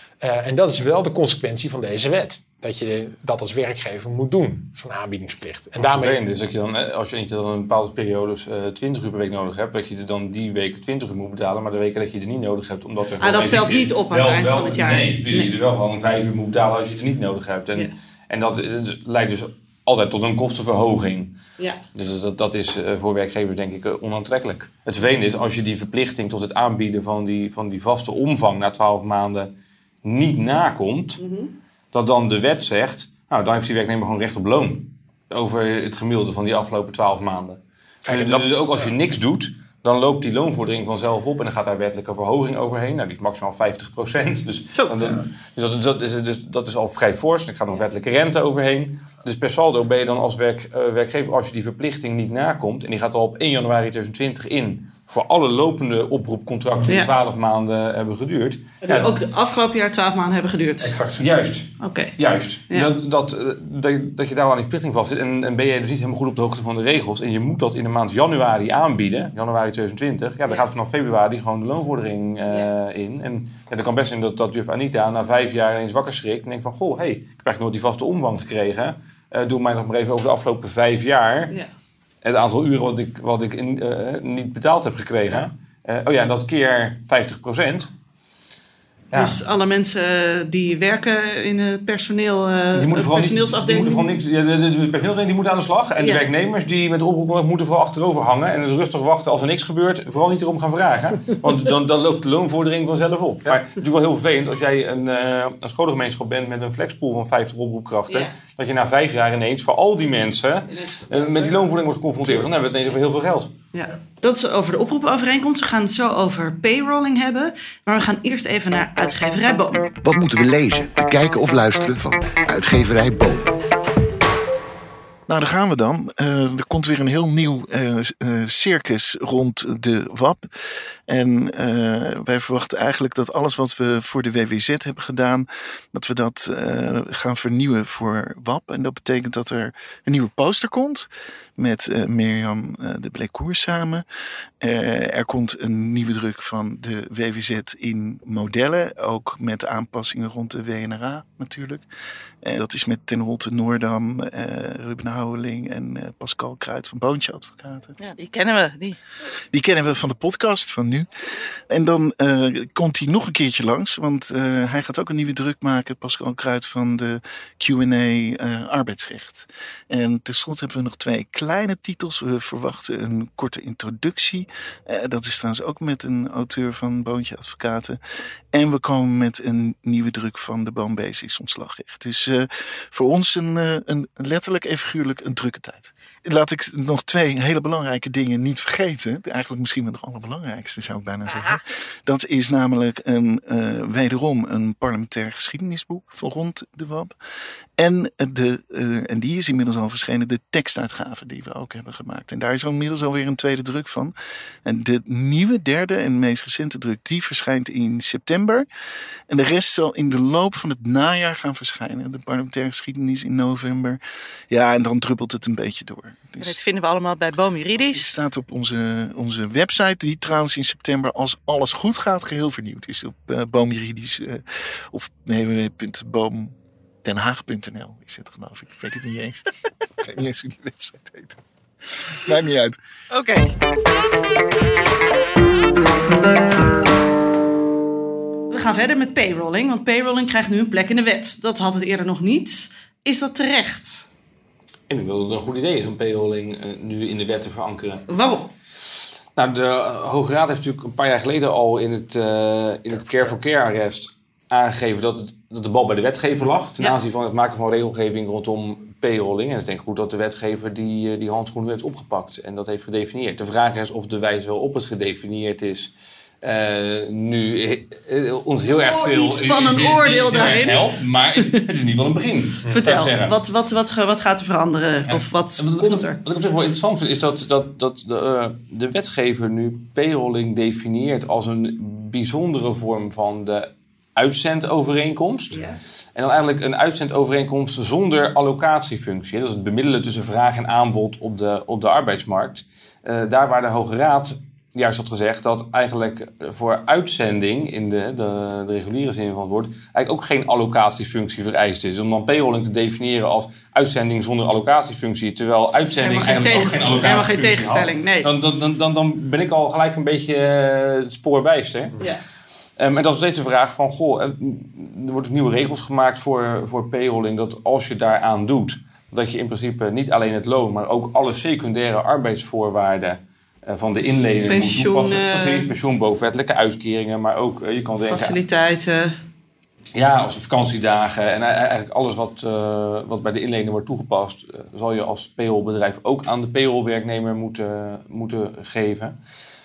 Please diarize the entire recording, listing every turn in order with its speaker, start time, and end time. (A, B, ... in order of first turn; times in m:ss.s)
0:00.2-0:06.2 A
0:05.8-0:21.4 B
0:13.2-0:15.5 C
0:21.9-0:29.5 B
0:30.0-0:31.2 B
0:31.2-0:31.5 C
0:31.9-0:59.2 B
0:38.0-0:38.9 A
0:58.8-1:01.0 C
1:00.8-1:01.2 A
1:01.1-1:21.5 B
1:01.8-1:02.2 C
1:22.2-1:27.9 B
1:29.1-1:29.4 B
1:29.1-1:34.1 C
1:32.7-1:53.5 B
1:36.0-1:36.3 C
1:50.7-1:51.6 C
1:53.7-1:59.9 C
2:00.0-2:03.5 D
2:05.3-2:10.5 E
2:11.1-2:24.0 E
2:24.6-2:31.8 E
2:32.4-2:38.0 E
2:38.0-2:39.0 C
2:39.5-2:41.1 E
2:41.7-2:58.0 E
2:58.5-3:17.2 E
3:17.8-3:24.1 E
3:24.6-3:28.7 E
3:29.3-3:34.0 E
3:34.5-3:36.6 E
3:36.4-3:38.2 C
3:37.8-3:49.4 E
3:50.0-3:52.8 E
3:53.1-3:53.5 C
3:58.5-4:04.0 C
4:04.9-4:08.1 B
4:08.1-4:08.5 C
4:09.4-4:33.4 B
4:28.8-4:31.5 C
4:32.6-4:32.9 A
4:32.7-4:36.2 C
4:35.1-4:45.6 B
4:45.5-4:45.8 C
4:46.2-5:12.0 B
5:06.0-5:08.3 C
5:12.8-5:28.4 B
5:24.5-5:25.7 C
5:28.1-5:29.2 C
5:30.0-5:39.2 B